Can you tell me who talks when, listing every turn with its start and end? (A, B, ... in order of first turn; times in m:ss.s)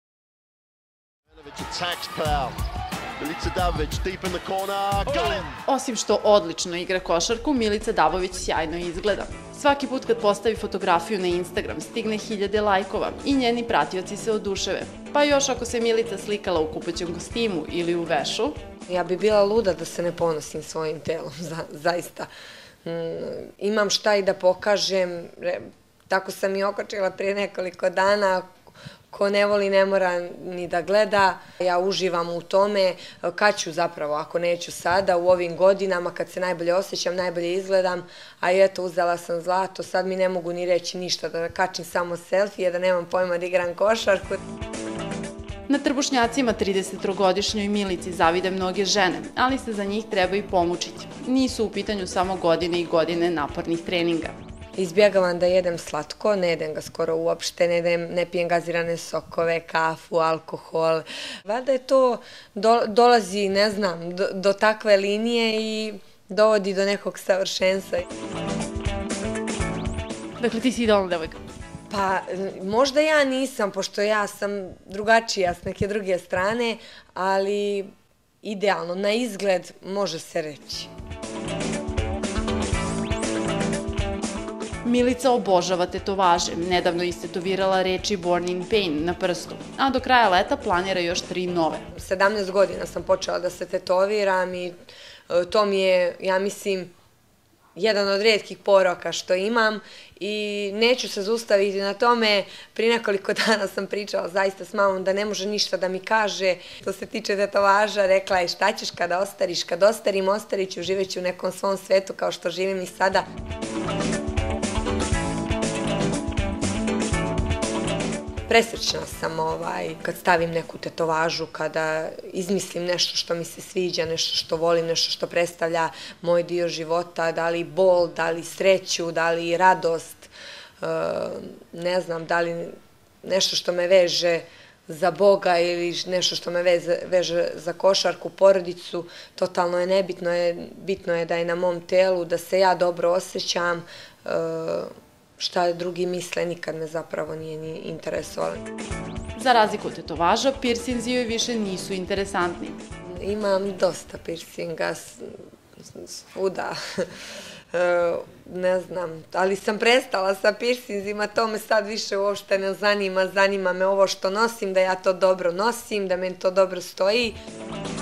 0:01.3-0:02.6 A
0:03.2-0:05.6 A
0:05.6-0:18.6 B
0:18.9-0:22.3 C
0:22.8-0:28.5 C
0:29.1-0:44.4 C
0:45.7-0:54.3 B
0:54.8-1:08.0 C
1:10.4-1:11.4 B
1:11.9-1:17.9 C
1:18.4-1:20.9 C
1:24.8-1:31.9 B
1:31.9-1:34.8 C
1:35.3-1:36.9 C
1:37.8-1:53.2 C
1:58.5-2:28.6 C
2:29.3-2:32.8 B
2:33.1-2:37.2 C
2:37.7-2:47.4 C